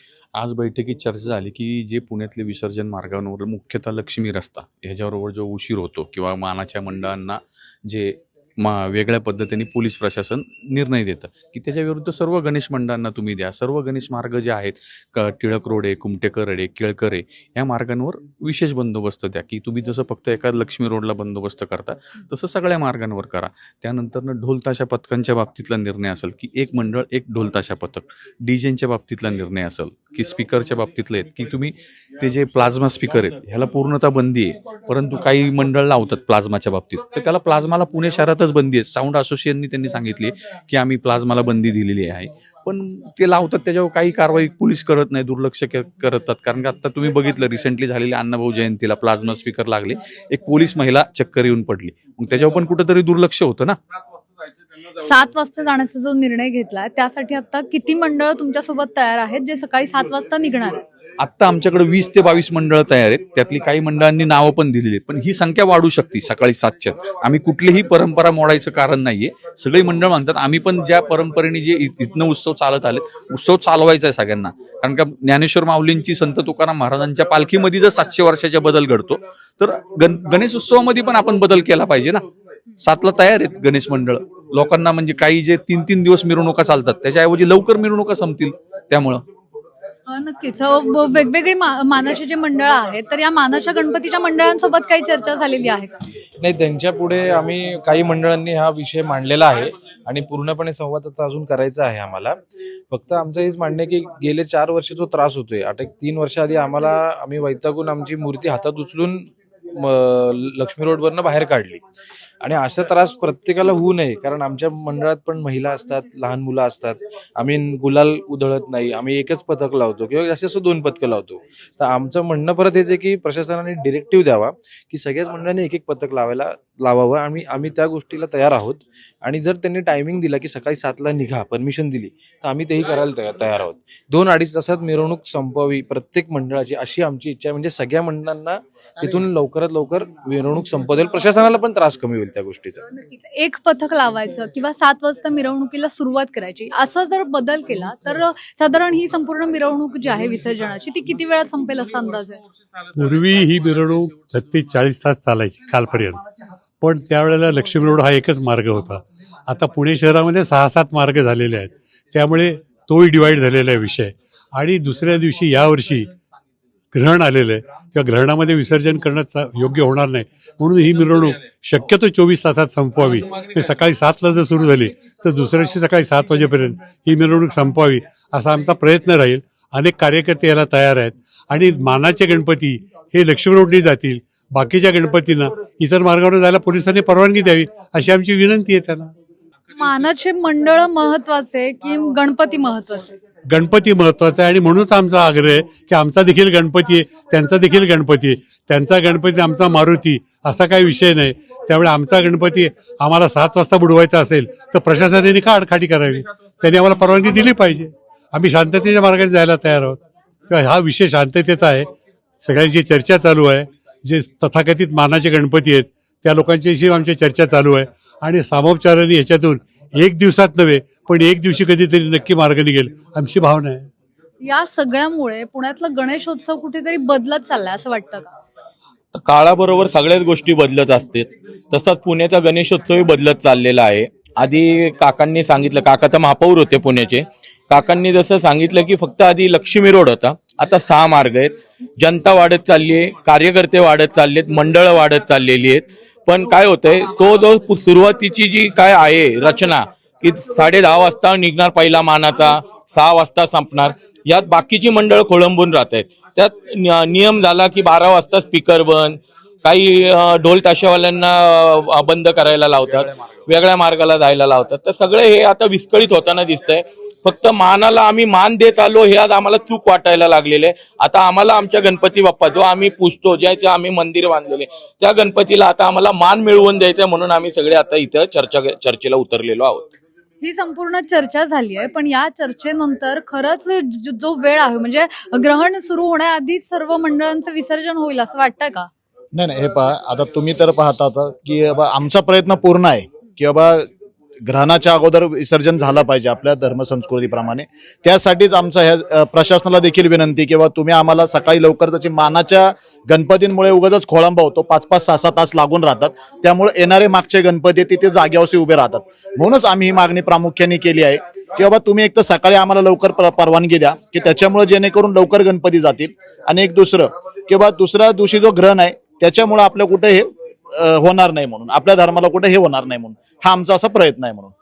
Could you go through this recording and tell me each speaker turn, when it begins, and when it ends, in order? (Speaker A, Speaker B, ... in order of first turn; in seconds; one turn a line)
Speaker A: 0.4-53.8
Speaker B: 55.0-60.8
Speaker A: 61.2-82.2
Speaker A: 82.8-89.2
Speaker B: 90.1-95.9
Speaker C: 96.4-102.4
Speaker C: 102.9-111.8
Speaker C: 112.4-142.8
Speaker B: 142.9-152.4
Speaker D: 153.0-156.2
Speaker D: 156.8-166.1
Speaker D: 166.9-189.1
Speaker B: 189.7-193.1
Speaker D: 193.5-211.9
Speaker D: 212.4-223.9
Speaker B: 224.4-228.3
Speaker E: 229.2-280.0
Speaker B: 280.4-288.9
Speaker F: 289.4-293.9
Speaker F: 294.4-324.5